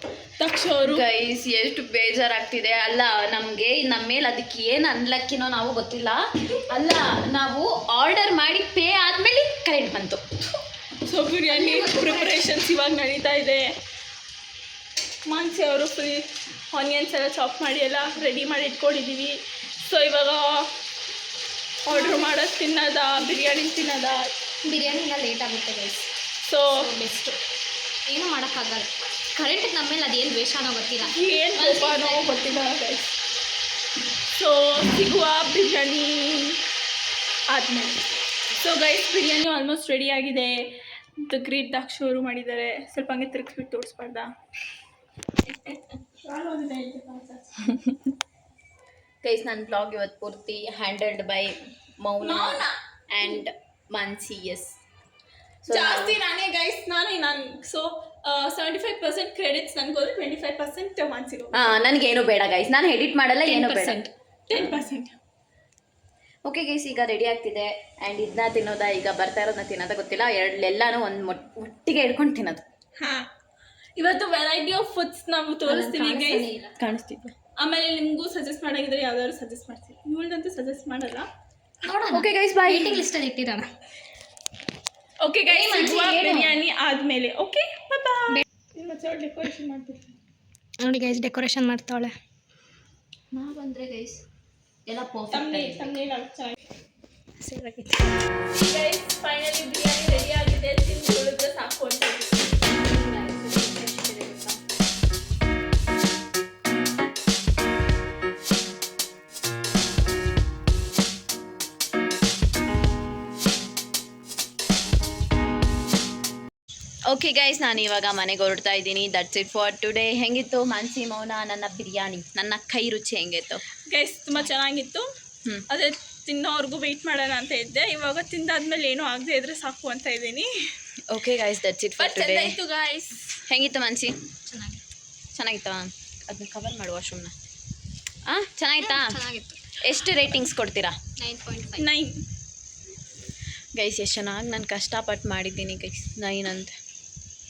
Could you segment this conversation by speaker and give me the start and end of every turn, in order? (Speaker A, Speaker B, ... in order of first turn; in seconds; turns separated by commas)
Speaker A: 0.4-1.0, Speaker B: 0.8-10.2, Speaker A: 11.0-13.7, Speaker C: 11.5-12.5, Speaker A: 15.3-20.7, Speaker A: 21.9-24.3, Speaker C: 21.9-22.4, Speaker C: 24.6-26.1, Speaker A: 26.4-26.8, Speaker C: 26.7-27.4, Speaker C: 28.1-32.8, Speaker A: 31.0-33.1, Speaker A: 34.3-36.6, Speaker A: 37.5-40.7, Speaker A: 41.2-44.3, Speaker A: 45.6-47.8, Speaker B: 49.2-54.8, Speaker A: 52.2-52.8, Speaker B: 55.6-56.2, Speaker A: 55.7-61.7, Speaker B: 61.5-64.0, Speaker C: 63.4-64.1, Speaker A: 64.5-65.2, Speaker B: 64.5-64.8, Speaker B: 66.4-72.6, Speaker A: 73.0-73.3, Speaker A: 74.0-76.5, Speaker C: 75.7-76.8, Speaker B: 76.8-77.3, Speaker A: 77.6-81.3, Speaker C: 81.8-83.7, Speaker B: 82.1-83.0, Speaker A: 85.2-90.1, Speaker C: 85.5-86.6, Speaker C: 90.8-92.1, Speaker B: 93.3-94.2, Speaker B: 94.8-96.0, Speaker A: 95.3-96.6, Speaker C: 97.4-98.2, Speaker A: 98.5-104.6, Speaker B: 117.1-123.6, Speaker A: 123.8-125.1, Speaker A: 125.7-130.5, Speaker B: 131.1-132.6, Speaker A: 132.0-133.4, Speaker B: 133.5-134.1, Speaker C: 134.5-134.8, Speaker B: 135.3-137.3, Speaker B: 138.2-139.2, Speaker C: 138.8-139.9, Speaker B: 139.8-141.0, Speaker C: 141.2-141.9, Speaker A: 141.8-142.2, Speaker B: 143.8-146.7